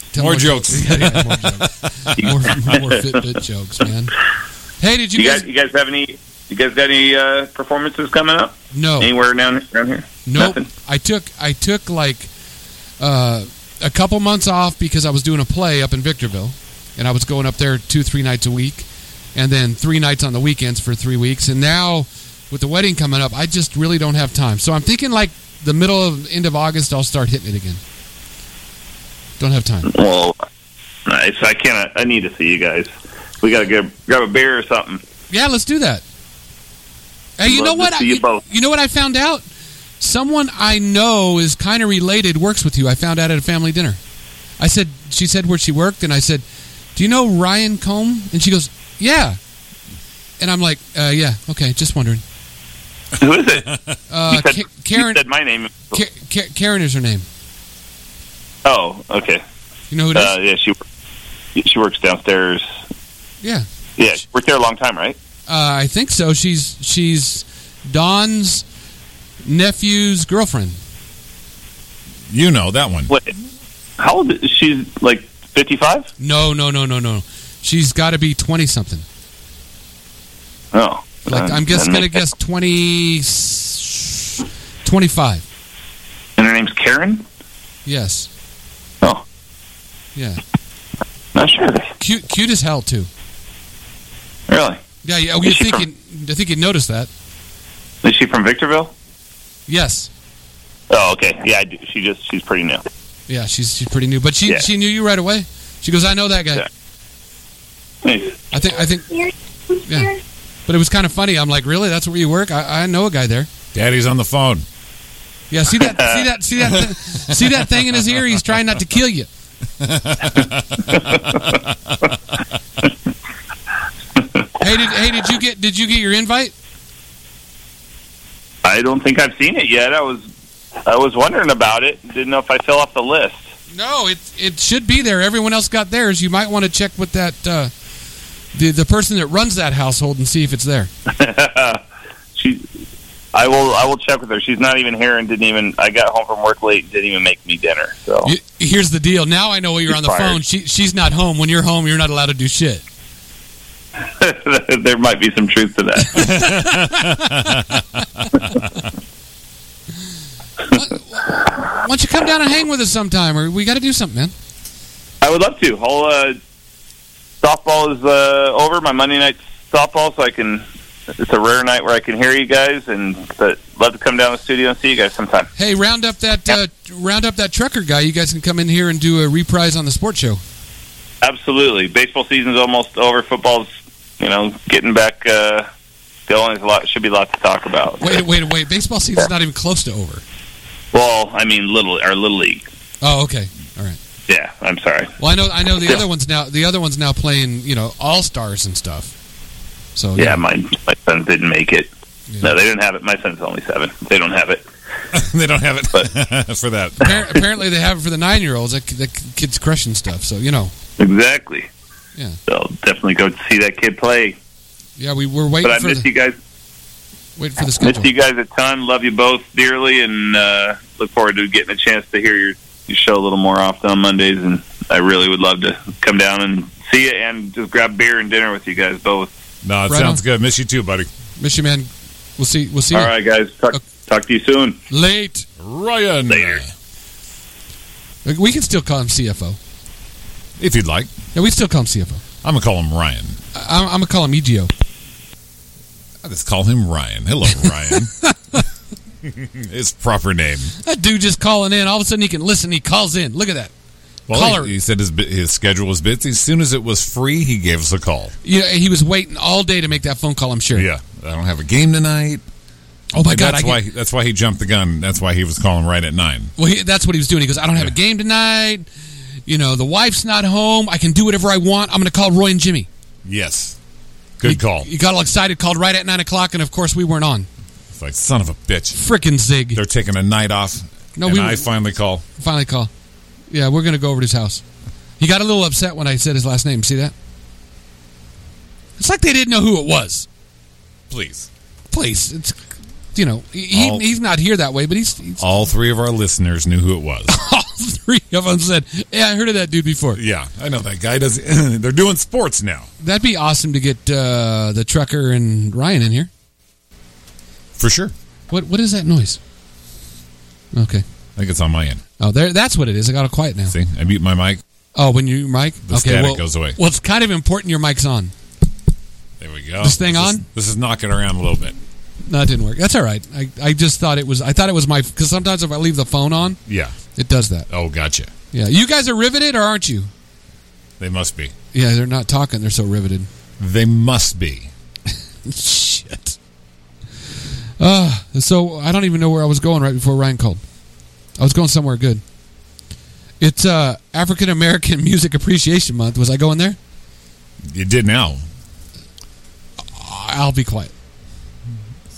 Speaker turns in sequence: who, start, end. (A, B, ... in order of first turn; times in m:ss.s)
0:00.1-0:04.1 A
0:00.2-0:02.2 B
0:02.2-0:02.9 C
0:04.8-0:05.4 A
0:05.2-0:10.6 C
0:08.7-0:09.1 A
0:10.3-0:12.3 A
0:13.0-0:27.8 A
0:29.4-0:29.9 A
0:29.9-0:30.4 C
0:31.1-0:35.0 C
0:35.3-0:36.0 A
0:37.4-0:39.4 A
0:37.4-0:38.4 C
0:40.0-0:44.0 A
0:44.6-0:46.4 A
0:47.0-0:49.4 A
0:50.4-0:52.2 A
0:53.2-0:55.9 C
0:54.1-0:55.2 A
0:55.9-0:57.3 A
0:58.6-0:59.4 C
0:59.9-1:00.3 A
1:00.1-1:00.8 C
1:01.6-1:02.7 C
1:03.4-1:03.7 A
1:04.0-1:05.2 C
1:05.5-1:08.6 A
1:09.4-1:10.8 A
1:12.3-1:13.1 B
1:14.0-1:16.1 C
1:16.2-1:19.0 A
1:20.7-1:22.3 C
1:21.3-1:25.4 A
1:26.4-1:27.2 C
1:27.9-1:28.3 A
1:30.2-1:30.4 A
1:31.4-1:31.9 C
1:32.0-1:33.1 A
1:34.5-1:34.8 C
1:35.0-1:37.1 A
1:35.4-1:35.8 C
1:38.0-1:38.9 C
1:39.7-1:40.1 A
1:40.9-1:42.8 C
1:43.3-1:46.6 A
1:48.0-1:48.4 C
1:48.5-1:49.3 A
1:49.8-1:50.2 A
1:50.7-1:53.5 A
1:53.7-1:54.6 B
1:55.5-1:59.3 A
1:55.8-1:56.2 C
1:59.8-2:02.0 B
2:00.9-2:01.4 C
2:04.6-2:06.5 A
2:08.6-2:10.2 C
2:10.9-2:13.4 C
2:13.7-2:17.7 A
2:18.5-2:20.9 A
2:21.1-2:21.8 C
2:22.4-2:22.6 C
2:23.3-2:28.3 C
2:28.2-2:32.8 A
2:29.9-2:30.4 C
2:34.2-2:36.4 C
2:36.2-2:37.4 A
2:36.3-2:37.8 B
2:40.7-2:44.3 A
2:45.2-2:46.4 C
2:47.4-2:50.6 C
2:51.2-2:55.5 C
2:55.6-3:00.4 A
3:01.2-3:03.7 C
3:04.2-3:05.7 C
3:06.3-3:08.2 C
3:08.0-3:10.2 A
3:10.9-3:12.6 C
3:13.0-3:14.0 A
3:14.3-3:15.2 C
3:15.2-3:19.1 A
3:20.0-3:20.4 A
3:20.2-3:21.9 C
3:22.4-3:24.6 C
3:25.1-3:27.4 B
3:27.0-3:30.7 A
3:31.0-3:31.7 C
3:32.5-3:34.4 C
3:35.0-3:36.1 A
3:35.6-3:36.4 C
3:37.4-3:38.1 A
3:37.8-3:49.3 C
3:49.6-3:51.1 B
3:49.9-3:50.2 A
3:51.4-3:53.1 A
3:52.9-3:54.8 C
3:54.9-3:55.4 A
3:55.6-3:56.7 B
3:56.3-3:56.6 C
3:58.2-3:59.6 A
4:00.6-4:01.1 B
4:01.4-4:02.2 A
4:02.4-4:03.4 B
4:03.5-4:04.7 A
4:06.2-4:08.1 B
4:07.9-4:08.6 A
4:09.2-4:10.7 B
4:10.8-4:13.7 A
4:14.3-4:18.4 B
4:14.3-4:14.7 A
4:18.4-4:20.9 A
4:20.7-4:22.4 B
4:23.1-4:23.8 A
4:23.2-4:26.5 B
4:26.6-4:28.9 A
4:29.5-4:32.9 A
4:33.2-4:33.8 B
4:34.4-4:34.9 B
4:34.4-4:37.5 A
4:37.9-4:39.0 B
4:38.9-4:39.8 A
4:39.7-4:42.2 B
4:41.2-4:41.7 A
4:42.4-4:42.9 A
4:43.5-4:44.6 A
4:45.2-4:47.1 A
4:49.0-4:50.3 A
4:51.1-4:51.5 B
4:51.9-4:52.6 A
4:53.2-4:55.4 A
4:53.7-4:54.1 B
4:55.4-4:57.3 B
4:57.3-5:00.2 A
5:00.1-5:02.9 B
5:03.0-5:06.3 A
5:07.8-5:08.1 B
5:08.5-5:09.4 A
5:10.7-5:11.0 A
5:11.4-5:12.0 B
5:12.2-5:13.8 A
5:13.7-5:14.6 B
5:15.0-5:18.3 A
5:15.9-5:16.8 B
5:19.4-5:21.8 B
5:19.8-5:20.4 A
5:22.3-5:26.6 A
5:26.7-5:27.0 B
5:27.2-5:27.7 A
5:27.7-5:28.3 B
5:28.5-5:30.1 A
5:31.0-5:31.5 B
5:31.7-5:33.3 A
5:33.6-5:34.7 B
5:35.4-5:36.4 A
5:37.8-5:40.6 A
5:41.4-5:42.2 A
5:43.4-5:46.8 A
5:47.7-5:48.4 B
5:49.8-5:50.9 A